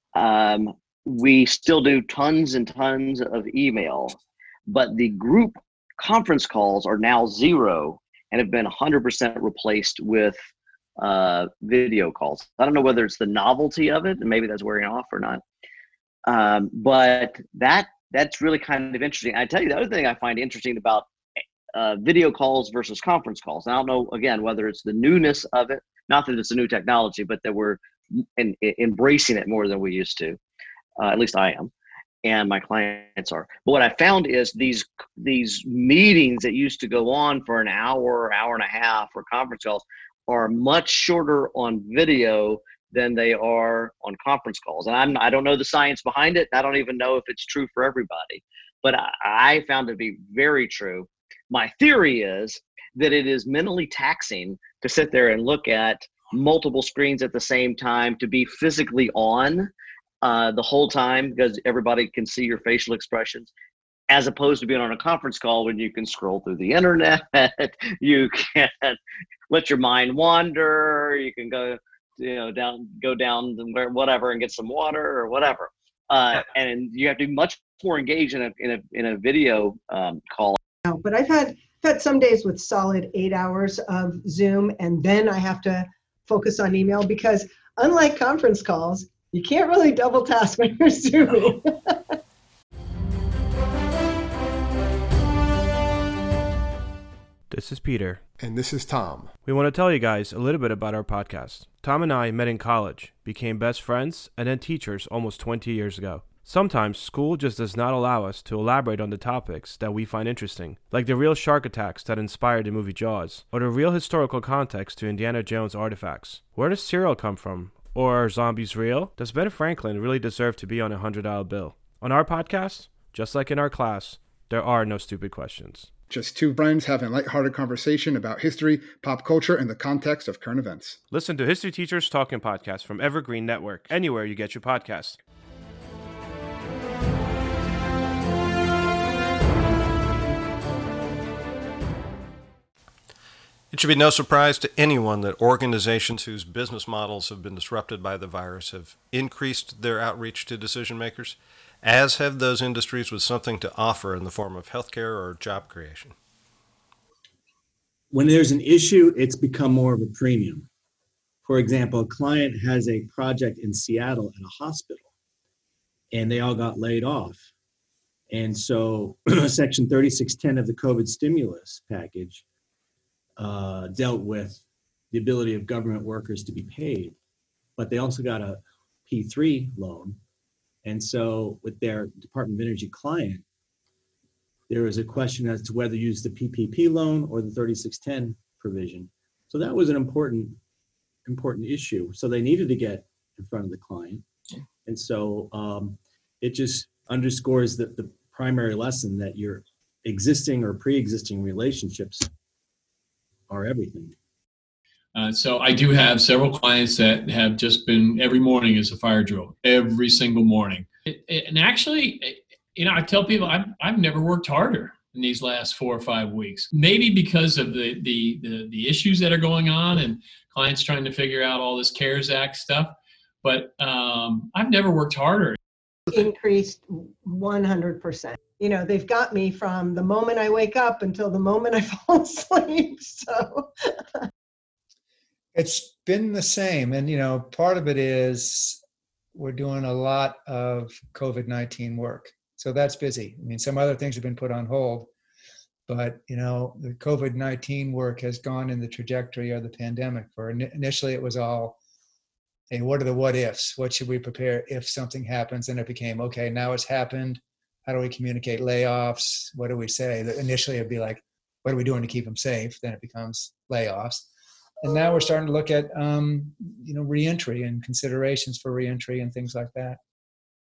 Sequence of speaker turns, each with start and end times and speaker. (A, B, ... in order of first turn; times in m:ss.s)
0:00.1-0:10.4 A
0:11.0-0:15.4 A
0:16.3-0:21.1 A
0:21.7-0:30.4 A
0:31.0-0:31.7 A
0:32.2-0:59.7 A
1:00.2-1:03.5 A
1:04.1-1:09.0 A
1:09.5-1:20.6 A
1:20.8-1:32.2 B
1:37.5-1:38.2 C
1:38.4-1:39.3 D
1:39.4-2:05.9 C
2:06.1-2:11.0 D
2:11.1-2:15.2 C
2:23.7-2:36.1 E
2:38.1-2:40.7 F
2:41.4-2:45.1 F
2:46.1-2:47.4 F
2:48.3-2:52.4 F
2:53.4-2:57.1 F
2:57.8-3:00.2 F
3:00.8-3:03.4 F
3:04.7-3:10.6 F
3:11.2-3:14.2 F
3:14.8-3:22.3 F
3:23.5-3:24.1 F
3:25.1-3:45.6 G
3:46.1-3:53.7 B
3:55.5-3:58.8 H
3:59.3-4:05.1 H
4:05.9-4:11.8 H
4:12.7-4:24.3 H
4:24.8-4:30.0 H